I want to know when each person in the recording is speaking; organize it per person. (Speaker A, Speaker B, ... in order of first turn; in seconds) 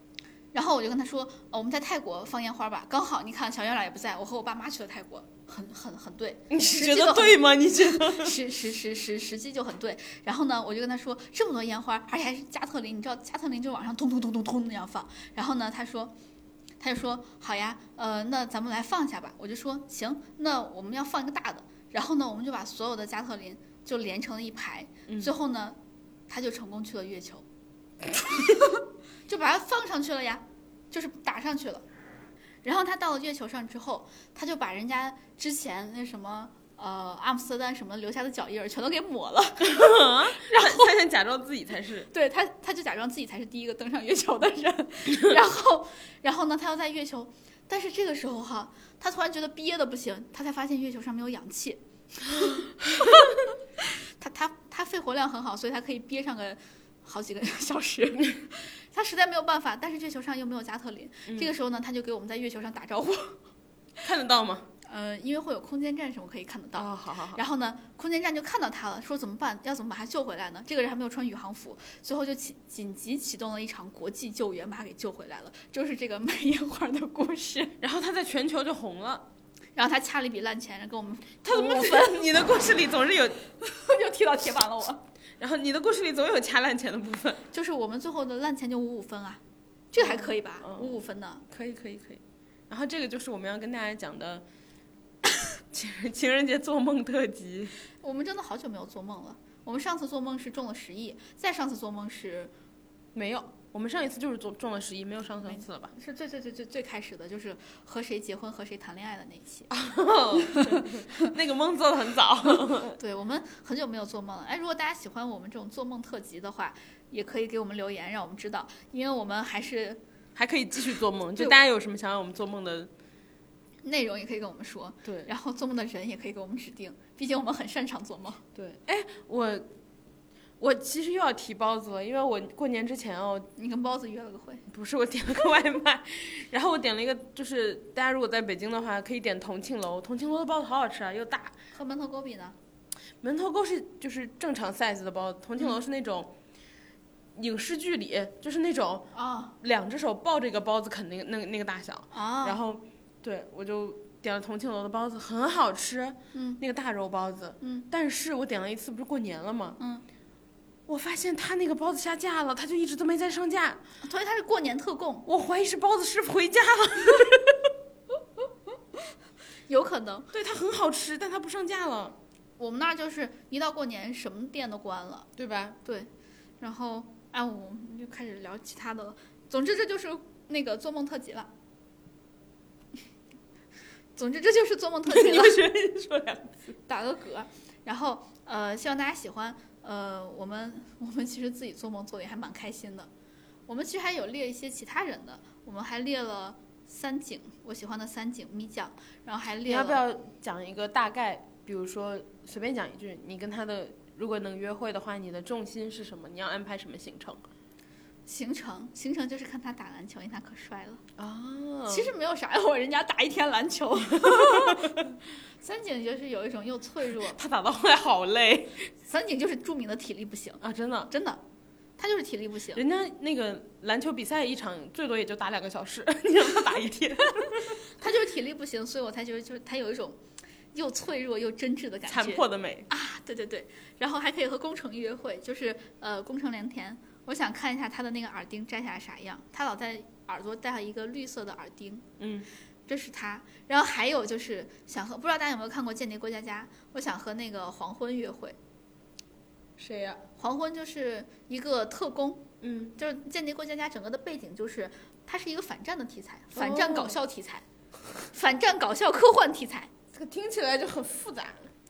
Speaker A: 0.5-16.1, 16.8-25.8, 26.3-27.4, 28.1-31.8, 32.6-40.9, 42.1-63.4, 64.9-77.8, 79.8-82.4, 83.6-85.0, 87.5-89.4, 89.9-91.4, 98.0-102.5, 105.5-109.7, 110.4-111.3, 113.0-120.0, 123.8-128.4, 133.6-134.7, 141.7-142.6, 149.1-149.6, 152.1-152.6, 156.3-156.6, 157.6-157.9, 159.8-160.1, 164.0-165.3, 169.7-170.3, 172.6-175.3, 175.8-176.1, 176.6-181.5, 184.2-185.6, 186.9-193.1, 193.7-200.0, 208.3-211.0, 211.9-215.1, 215.6-217.4, 219.0-221.4, 222.0-222.8, 228.0-230.2, 230.7-242.1, 242.9-248.6, 250.4-257.6, 258.2-259.9
Speaker B: 6.5-8.4, 39.6-42.1, 64.0-64.7, 66.8-67.4, 77.8-79.3, 81.4-83.4, 85.4-87.4, 90.0-91.0, 91.5-94.5, 95.7-97.7, 103.1-105.9, 109.7-113.0, 120.4-122.9, 125.0-125.3, 128.6-129.7, 130.6-133.5, 134.7-141.5, 143.2-146.3, 147.4-159.8, 160.9-163.8, 165.3-167.7, 170.3-172.2, 175.4-175.8, 185.1-186.7, 199.6-207.4, 211.2-212.1, 214.1-215.1, 217.3-218.9, 220.6-221.1, 222.7-227.8, 232.1-232.9, 242.2-242.5, 249.8-250.2, 252.6-252.9, 256.5-257.2, 260.1-261.7